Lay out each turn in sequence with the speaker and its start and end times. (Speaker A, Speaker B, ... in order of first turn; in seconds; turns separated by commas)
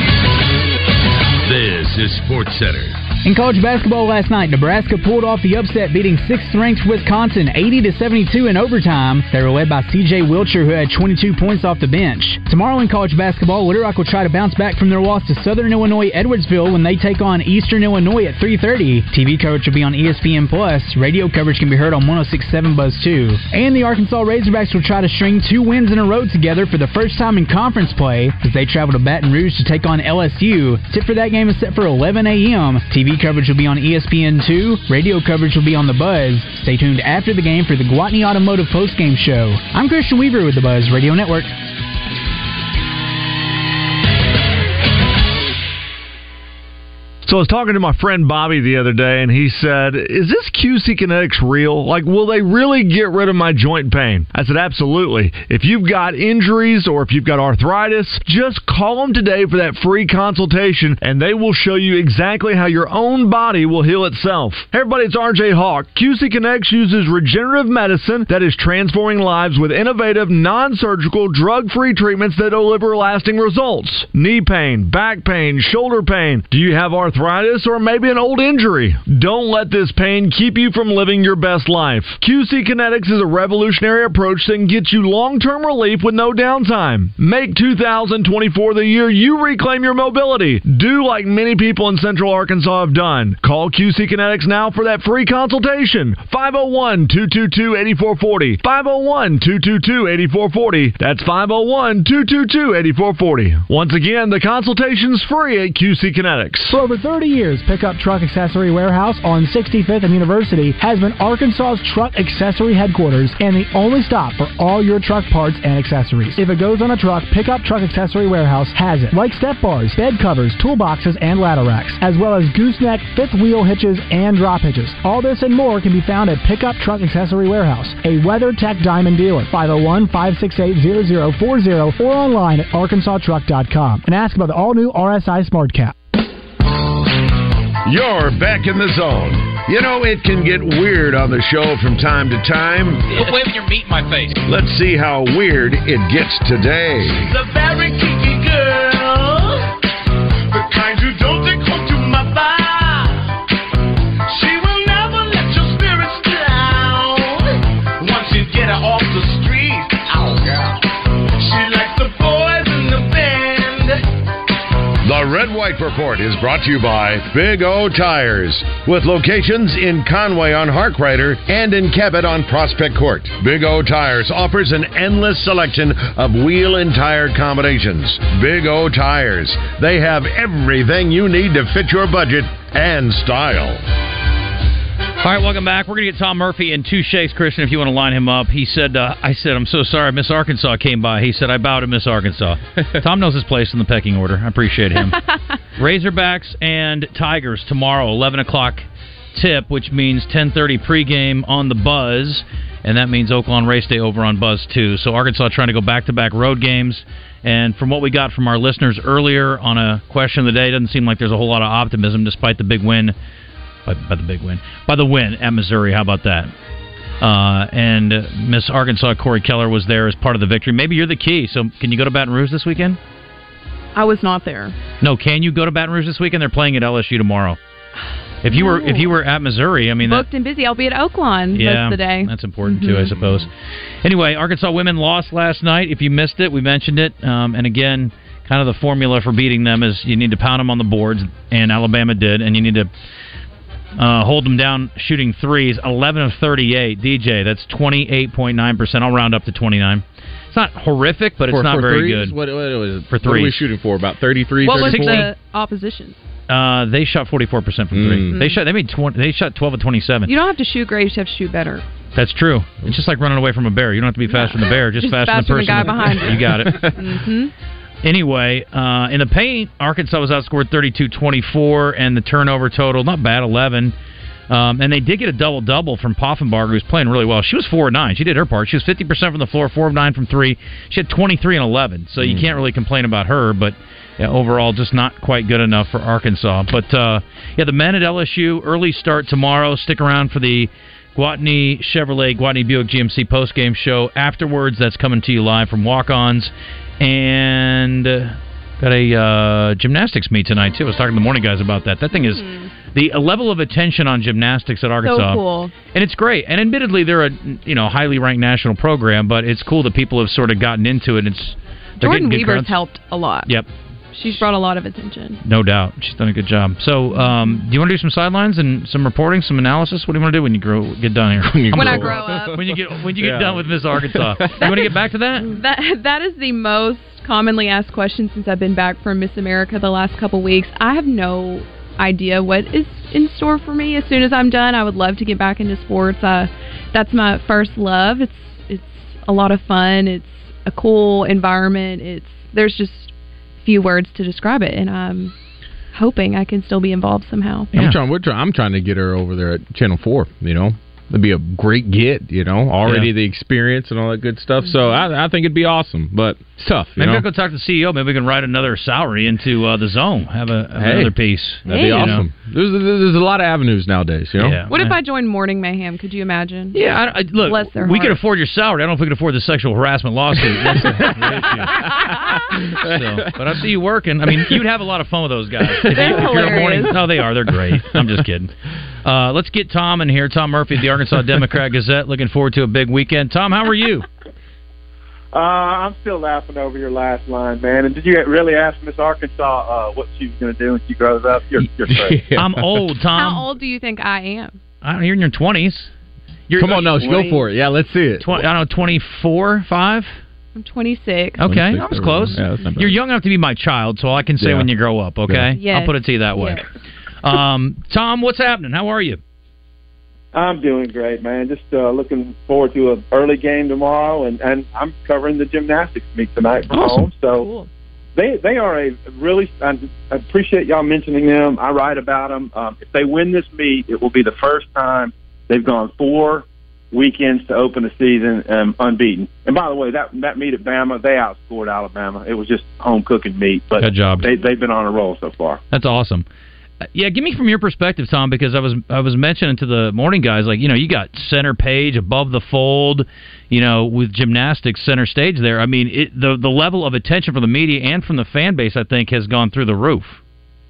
Speaker A: 1.4-2.9, Speaker B: 3.2-41.5, Speaker C: 47.2-106.7, Speaker B: 106.7-135.9, Speaker A: 137.8-143.2, Speaker D: 143.2-144.3, Speaker A: 144.4-147.3, Speaker E: 147.6-147.9, Speaker E: 151.0-151.8, Speaker E: 154.7-156.3, Speaker E: 158.0-159.0, Speaker E: 161.6-163.7, Speaker A: 165.0-183.8, Speaker D: 185.2-195.2, Speaker D: 195.8-213.1, Speaker D: 213.8-216.5, Speaker D: 217.2-223.0, Speaker F: 223.9-224.7, Speaker D: 225.0-227.6, Speaker D: 228.4-230.2, Speaker F: 228.5-229.1, Speaker F: 230.0-233.1, Speaker D: 231.5-233.5, Speaker D: 234.0-242.9, Speaker D: 244.0-252.4, Speaker G: 251.5-255.3, Speaker D: 253.1-253.6, Speaker F: 254.6-256.2, Speaker D: 254.7-255.3, Speaker D: 256.5-260.3, Speaker G: 257.9-258.3, Speaker F: 258.3-258.6, Speaker F: 260.2-261.8, Speaker D: 262.1-267.0, Speaker F: 264.3-267.5, Speaker G: 266.4-266.9, Speaker D: 268.0-273.9, Speaker D: 274.5-312.7, Speaker G: 282.2-282.5, Speaker F: 302.1-302.7, Speaker F: 305.0-305.7, Speaker F: 312.0-313.5, Speaker F: 314.1-315.4, Speaker D: 315.4-325.5, Speaker G: 321.4-324.7, Speaker F: 321.7-322.6, Speaker F: 324.6-324.9, Speaker F: 325.4-343.1, Speaker F: 343.6-345.3, Speaker F: 345.9-347.7, Speaker G: 347.7-357.2, Speaker D: 352.8-353.1, Speaker F: 354.6-355.0, Speaker D: 357.0-362.2, Speaker G: 360.8-361.1, Speaker G: 361.6-364.6, Speaker F: 361.7-362.2, Speaker D: 364.4-364.9, Speaker F: 364.7-366.8, Speaker D: 366.7-378.5, Speaker F: 367.4-368.2, Speaker G: 370.6-373.5, Speaker G: 375.7-376.7, Speaker F: 375.9-377.0, Speaker G: 377.7-378.0, Speaker D: 379.0-384.1, Speaker H: 385.3-392.2, Speaker G: 391.9-392.6, Speaker D: 392.3-393.5, Speaker F: 393.1-394.6, Speaker D: 394.8-395.9, Speaker D: 396.5-397.0, Speaker G: 396.6-398.4, Speaker H: 397.0-397.4, Speaker D: 398.2-400.2, Speaker F: 400.5-402.0, Speaker D: 401.4-406.7, Speaker G: 401.4-403.0, Speaker G: 404.4-404.7, Speaker F: 405.5-406.6, Speaker D: 407.2-409.2, Speaker H: 410.3-417.5, Speaker F: 417.4-417.7, Speaker H: 418.1-435.6, Speaker D: 433.8-434.3, Speaker D: 435.7-436.2, Speaker D: 436.9-450.2